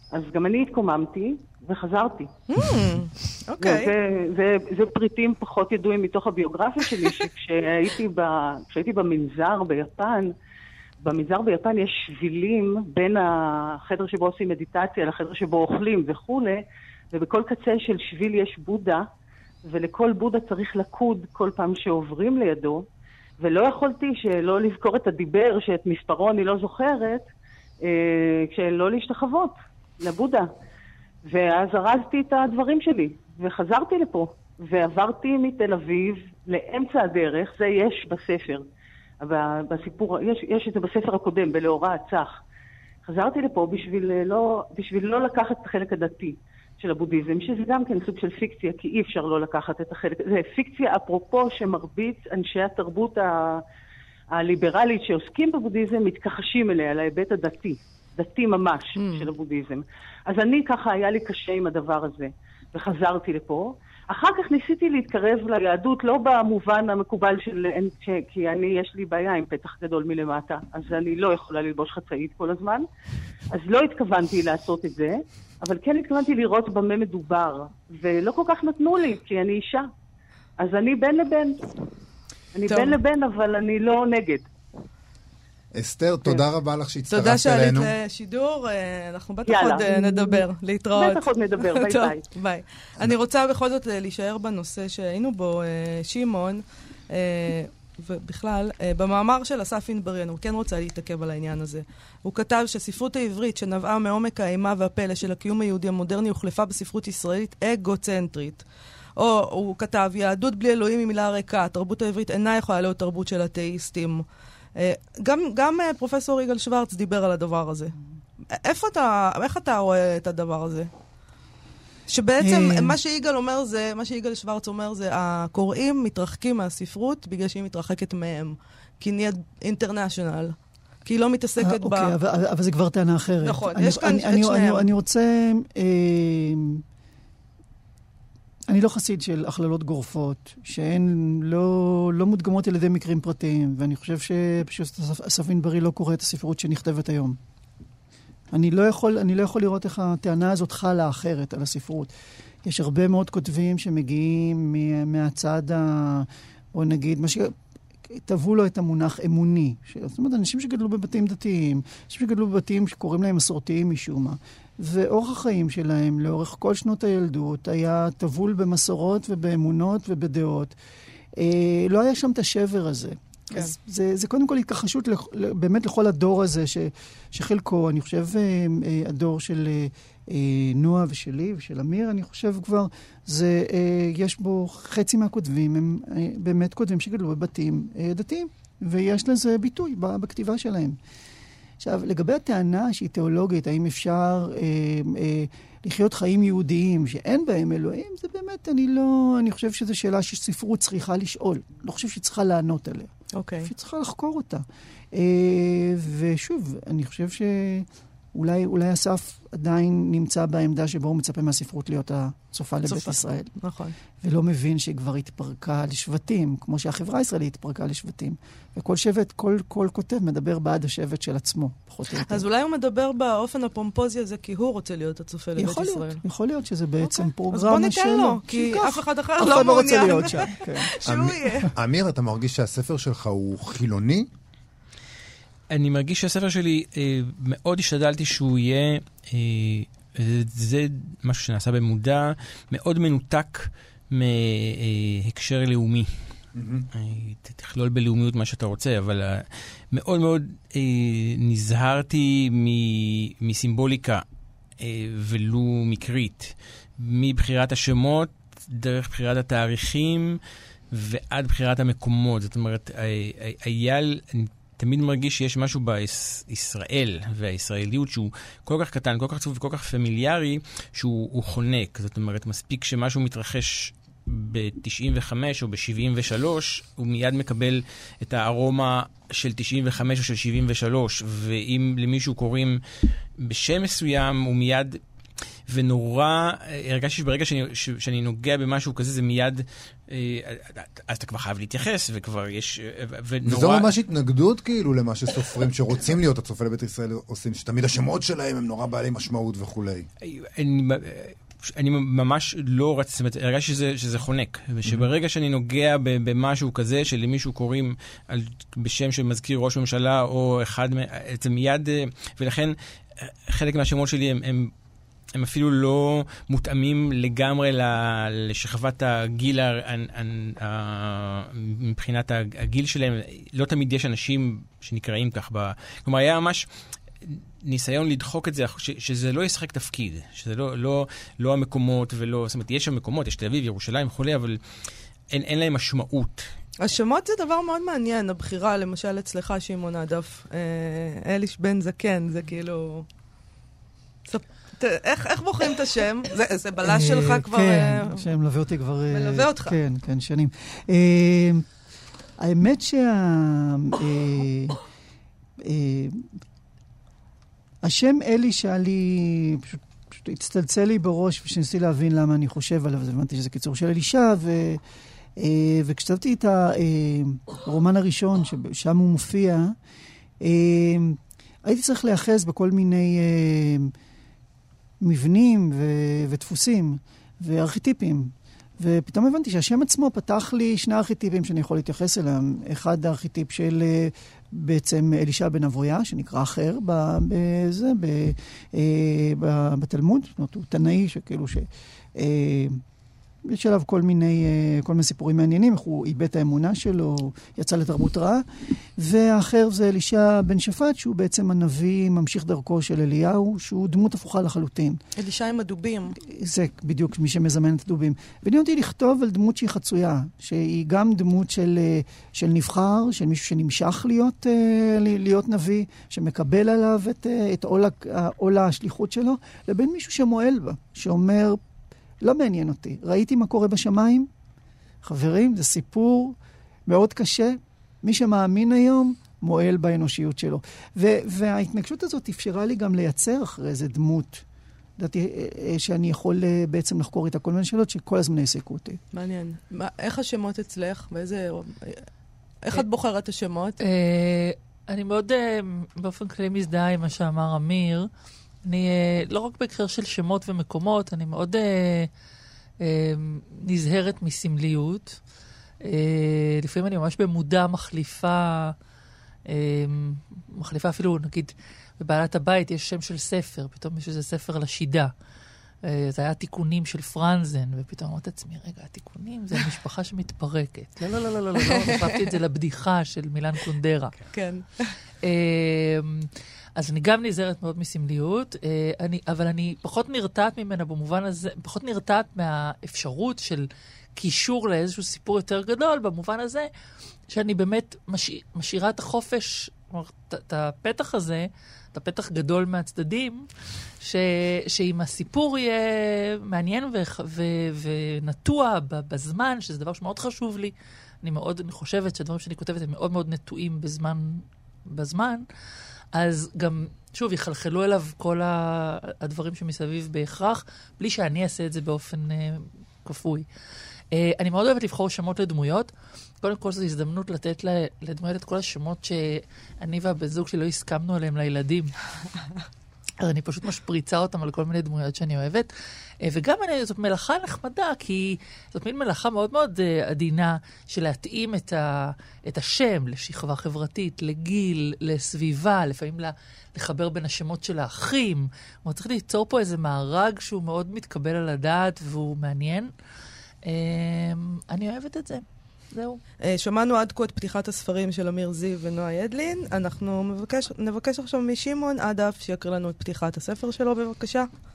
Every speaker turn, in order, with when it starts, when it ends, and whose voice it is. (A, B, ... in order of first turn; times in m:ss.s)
0:00.1-0:02.3 A
0:02.5-0:03.9 B
0:03.6-0:10.3 A
0:11.0-0:16.6 A
0:17.1-0:19.0 A
0:19.6-0:22.8 A
0:23.4-0:27.2 A
0:27.8-0:30.5 A
0:31.3-0:38.6 A
0:39.2-0:42.4 A
0:43.0-0:53.6 A
0:54.4-1:12.8 A
0:59.0-0:59.3 B
1:13.5-1:19.9 A
1:20.6-1:21.6 A
1:22.5-1:24.4 A
1:22.7-1:23.0 B
1:25.7-1:27.9 C
1:27.1-1:48.6 B
1:29.4-1:32.2 A
1:49.2-1:57.9 B
1:58.5-2:00.9 B
2:02.1-2:12.1 B
2:02.4-2:03.0 D
2:11.6-2:16.8 D
2:13.4-2:14.9 B
2:18.7-2:27.4 D
2:28.5-2:32.1 D
2:32.6-2:37.5 D
2:38.1-2:50.7 D
2:51.4-3:11.0 D
3:11.8-3:33.5 D
3:23.3-3:23.7 B
3:32.9-3:33.9 B
3:34.2-3:42.5 D
3:42.3-3:46.2 B
3:45.6-3:50.9 D
3:47.5-3:51.7 B
3:51.0-3:54.3 C
3:55.7-4:06.1 E
4:06.5-4:06.9 C
4:06.9-4:14.2 E
4:14.8-4:20.4 E
4:20.9-4:45.0 E
4:45.7-4:53.9 E
4:53.4-5:00.1 C
5:00.2-5:14.7 E
5:15.4-5:26.6 E
5:27.2-5:34.6 E
5:35.3-5:36.5 E
5:36.8-5:43.0 B
5:44.3-5:48.2 B
5:46.8-5:51.6 D
5:49.1-5:49.8 B
5:52.4-5:54.8 D
5:55.6-5:56.2 D
5:57.8-6:04.8 D
6:05.4-6:09.8 D
6:10.4-6:13.9 D
6:15.0-6:32.8 D
6:33.4-6:38.4 D
6:39.0-6:45.0 D
6:45.2-6:46.1 B
6:46.2-7:01.6 D
7:02.2-7:04.3 D
7:05.0-7:14.4 D
7:15.0-7:19.0 D
7:19.1-7:22.0 B
7:22.6-7:23.8 B
7:23.8-7:28.1 F
7:28.6-7:32.1 F
7:32.8-7:35.2 F
7:35.8-7:38.7 F
7:39.5-7:45.1 F
7:45.8-7:54.1 F
7:51.6-7:52.0 B
7:54.3-7:54.9 B
7:55.2-8:06.7 F
8:07.3-8:13.4 F
8:14.0-8:25.4 F
8:26.1-8:33.5 F
8:34.1-8:41.9 F
8:43.2-8:45.7 F
8:46.2-9:02.9 F
9:03.6-9:06.2 F
9:06.4-9:14.5 B